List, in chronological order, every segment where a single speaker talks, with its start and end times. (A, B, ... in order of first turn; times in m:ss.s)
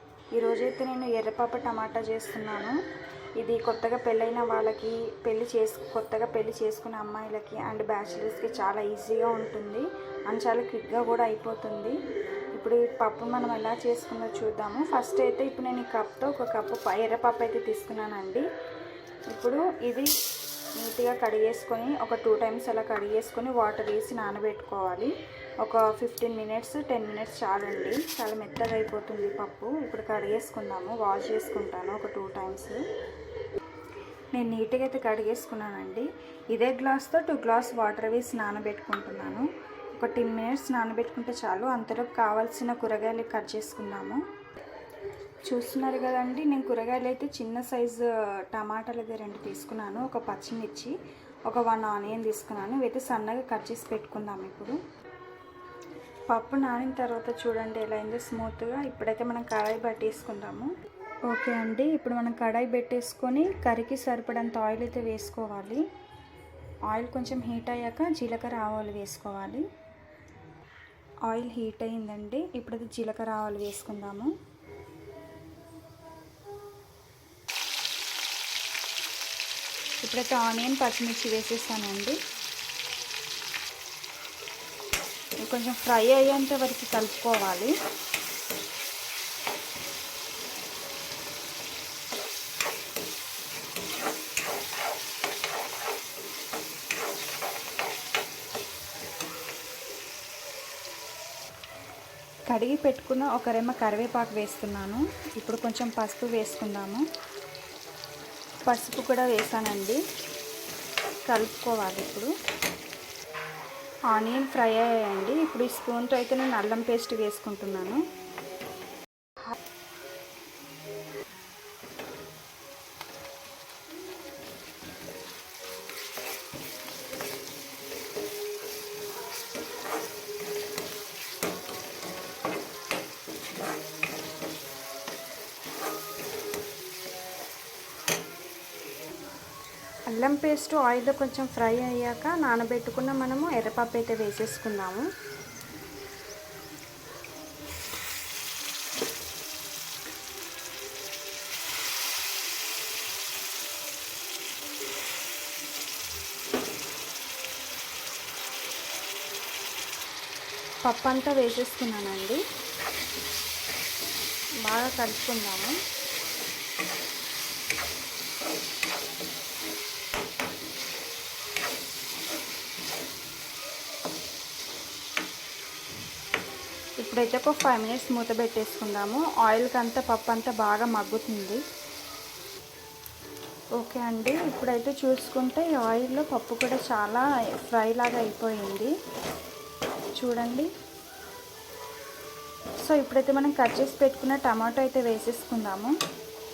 0:00.3-0:02.8 A
0:03.4-0:12.0 A
0:12.5-0:18.4 A
0:19.3-0:20.1 A
0:20.8-0:32.8 A
0:34.3-0:44.2 A
0:45.4-0:51.0 A
0:51.5-0:54.8 A
0:56.3-1:00.7 A
1:01.3-1:05.8 A
1:06.9-1:09.6 A
1:11.2-1:14.3 A
1:20.0-1:22.2 A
1:25.4-1:27.7 A
1:42.5-1:47.0 A
1:48.6-1:50.0 A
1:51.2-1:52.3 A
1:54.1-1:58.0 A
2:20.1-2:25.1 A
2:40.8-2:42.4 A
2:44.6-2:45.8 A
2:57.0-3:01.6 A
3:03.8-3:08.9 A
3:10.2-3:10.7 A
3:12.8-3:16.0 A